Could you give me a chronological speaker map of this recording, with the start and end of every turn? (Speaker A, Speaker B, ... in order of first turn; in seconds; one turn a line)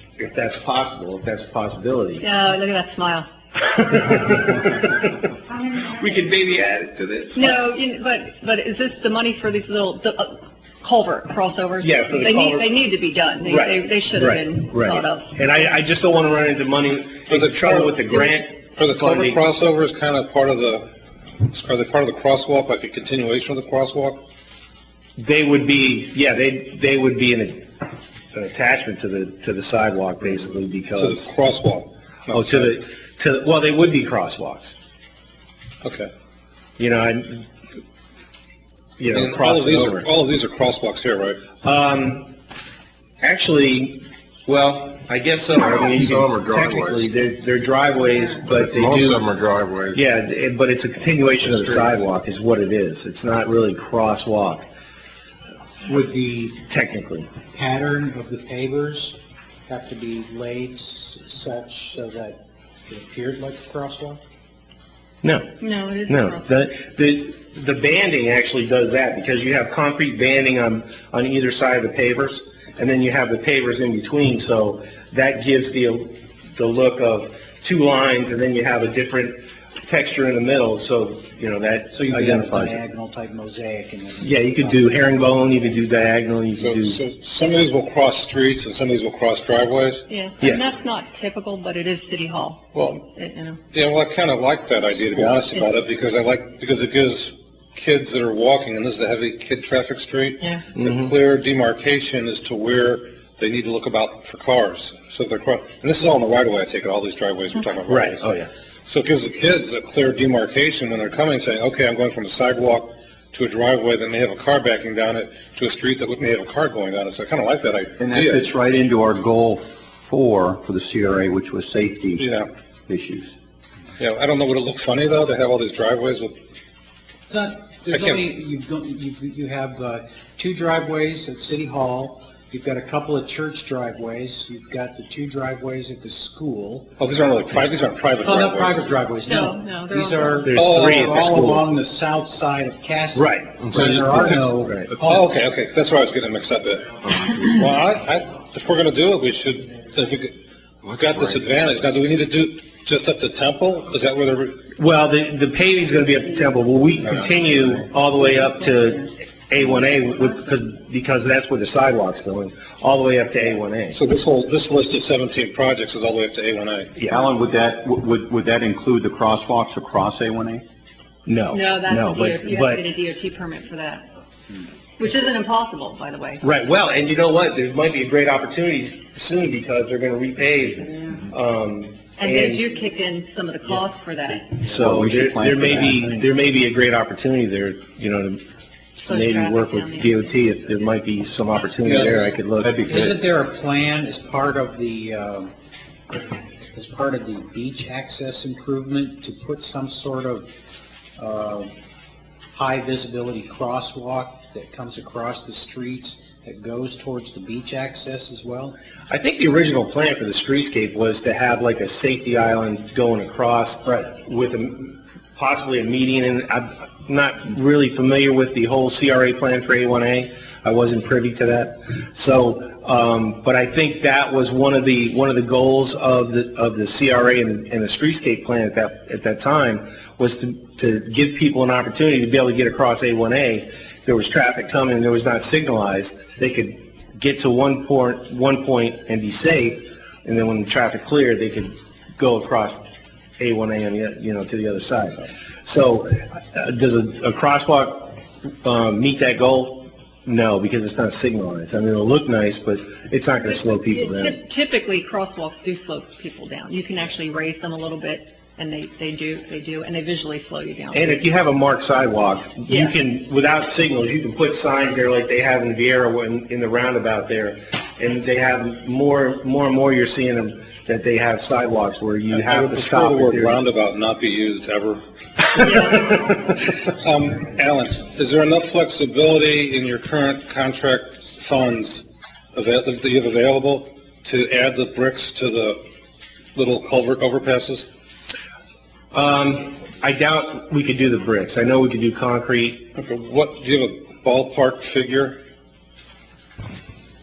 Speaker A: 0.2-2.2
Speaker B: 2.2-3.3
Speaker A: 3.7-5.1
Speaker A: 5.8-7.6
Speaker B: 7.3-15.5
Speaker A: 11.8-12.7
Speaker A: 13.4-19.4
Speaker C: 17.3-18.2
Speaker C: 18.8-20.9
Speaker C: 21.5-24.2
Speaker A: 25.2-27.7
Speaker A: 28.3-31.3
Speaker C: 31.0-32.8
Speaker A: 32.3-34.8
Speaker C: 35.8-36.1
Speaker A: 36.8-37.5
Speaker A: 39.0-40.1
Speaker C: 39.1-41.4
Speaker A: 41.6-42.3
Speaker A: 43.2-49.3
Speaker D: 45.8-47.1
Speaker D: 48.5-50.0
Speaker A: 49.9-54.6
Speaker D: 51.4-52.0
Speaker E: 55.9-56.7
Speaker A: 56.7-57.3
Speaker E: 57.5-59.2
Speaker E: 59.7-64.2
Speaker A: 65.2-65.5
Speaker B: 65.6-66.5
Speaker A: 66.1-82.8
Speaker E: 81.9-84.9
Speaker A: 84.2-87.0
Speaker C: 86.6-90.0
Speaker B: 90.1-93.6
Speaker A: 90.4-90.8
Speaker C: 92.8-93.0
Speaker C: 93.7-108.3
Speaker A: 100.8-101.1
Speaker A: 107.9-108.5
Speaker C: 108.9-118.5
Speaker F: 118.0-122.2
Speaker C: 122.2-122.5
Speaker F: 122.9-123.3
Speaker C: 124.0-126.3
Speaker E: 127.3-136.9
Speaker C: 127.9-128.2
Speaker C: 137.0-138.9
Speaker E: 138.2-145.3
Speaker B: 139.3-140.5
Speaker A: 140.4-141.7
Speaker C: 140.6-141.3
Speaker A: 143.2-143.7
Speaker D: 143.6-145.0
Speaker A: 144.6-144.9
Speaker C: 145.0-150.3
Speaker D: 147.0-147.5
Speaker D: 150.8-151.5
Speaker C: 150.9-154.6
Speaker A: 154.8-164.0
Speaker B: 158.2-159.0
Speaker B: 159.6-160.0
Speaker C: 163.9-167.0
Speaker A: 167.0-167.3
Speaker F: 167.1-170.6
Speaker A: 171.3-172.8
Speaker B: 171.5-174.1
Speaker B: 175.0-176.4
Speaker A: 176.4-182.6
Speaker B: 182.2-184.5
Speaker F: 184.6-186.3
Speaker A: 184.6-188.4
Speaker B: 189.0-190.5
Speaker A: 189.1-192.8
Speaker F: 191.8-193.2
Speaker E: 192.9-195.5
Speaker E: 196.7-200.5
Speaker E: 201.2-201.7
Speaker E: 202.6-208.8
Speaker A: 209.1-242.8
Speaker A: 243.4-254.4
Speaker B: 253.5-261.2
Speaker A: 260.9-273.6
Speaker B: 262.7-262.9
Speaker C: 272.3-285.8
Speaker C: 286.6-287.9
Speaker A: 289.1-292.9
Speaker C: 292.9-295.4